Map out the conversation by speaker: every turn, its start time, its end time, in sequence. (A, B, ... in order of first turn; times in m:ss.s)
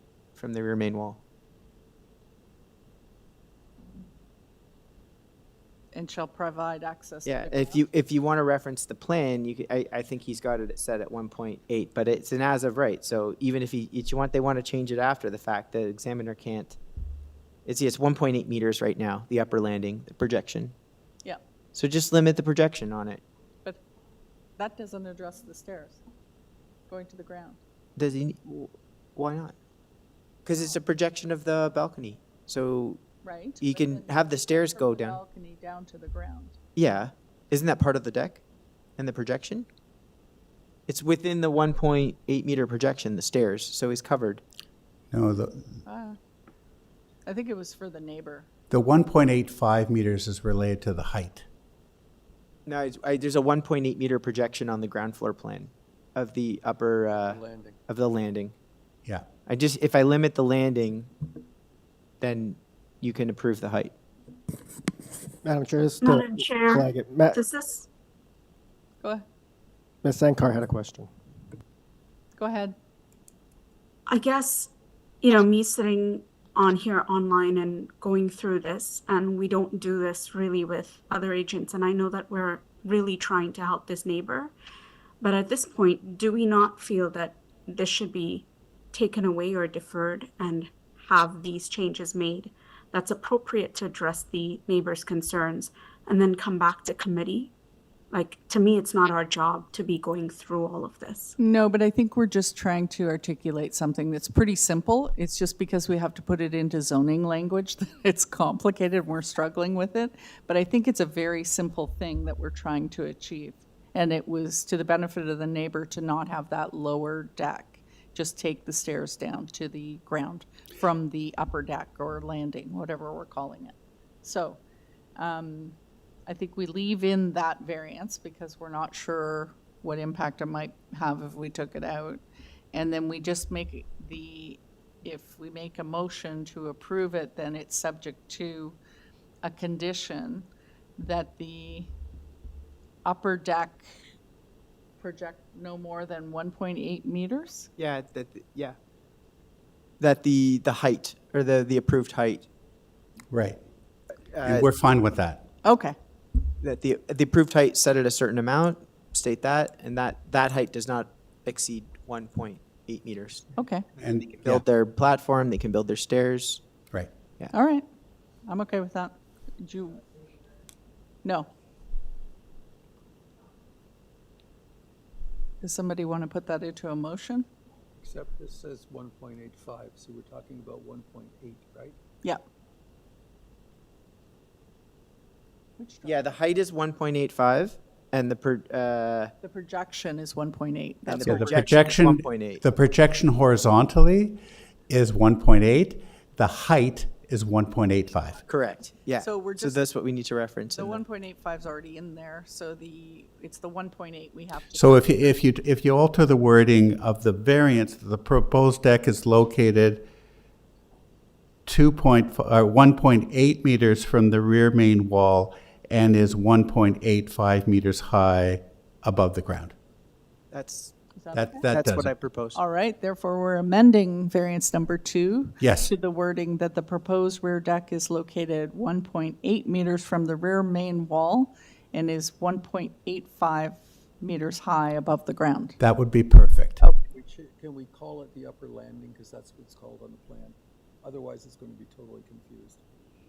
0:00.4-0:01.2 A
0:05.9-0:07.9 B
0:07.3-0:16.8 A
0:17.7-0:20.7 A
0:21.7-0:23.2 A
0:24.6-0:26.0 B
0:26.9-0:27.6 B
0:28.0-0:29.6 A
0:30.5-0:33.0 A
0:33.2-0:36.6 B
0:33.6-0:35.2 A
0:36.8-0:38.4 A
0:39.0-0:39.7 A
0:40.9-0:44.4 A
0:45.1-0:45.8 C
0:45.9-0:46.2 B
0:47.2-0:48.5 B
0:48.7-0:51.5 C
0:52.7-0:58.6 A
0:57.2-0:57.8 D
0:59.5-1:01.1 A
1:02.2-1:03.9 A
1:05.4-1:07.4 E
1:06.0-1:07.9 F
1:10.0-1:11.1 E
1:12.4-1:12.8 B
1:14.1-1:14.7 F
1:15.2-1:24.6 F
1:25.2-1:37.5 F
1:38.1-1:41.4 F
1:41.4-2:04.6 B
2:05.2-2:18.8 B
2:19.4-2:21.9 B
2:23.0-2:23.9 B
2:25.0-2:27.7 B
2:27.8-2:28.8 A
2:30.0-2:32.5 A
2:33.3-2:33.6 C
2:34.3-2:34.7 A
2:34.4-2:35.4 C
2:35.6-2:36.0 B
2:36.6-2:43.4 A
2:43.6-2:43.9 B
2:44.0-2:44.6 C
2:44.2-2:46.6 A
2:47.5-2:47.9 B
2:48.5-2:50.0 B
2:51.2-2:51.5 B
2:55.6-2:57.5 B
2:58.0-3:02.0 D
3:05.8-3:06.3 B
3:06.0-3:09.3 A
3:09.4-3:11.7 B
3:11.1-3:12.6 A
3:11.2-3:18.4 C
3:18.5-3:21.0 A
3:19.2-3:19.8 B
3:20.8-3:25.4 B
3:24.7-3:30.1 C
3:31.7-3:39.7 C
3:40.5-3:40.9 A
3:41.2-3:41.7 B
3:41.3-3:42.1 C
3:41.7-3:42.6 A
3:42.6-3:55.8 B
3:45.6-3:45.9 C
3:55.8-3:56.8 C
3:57.1-4:02.8 D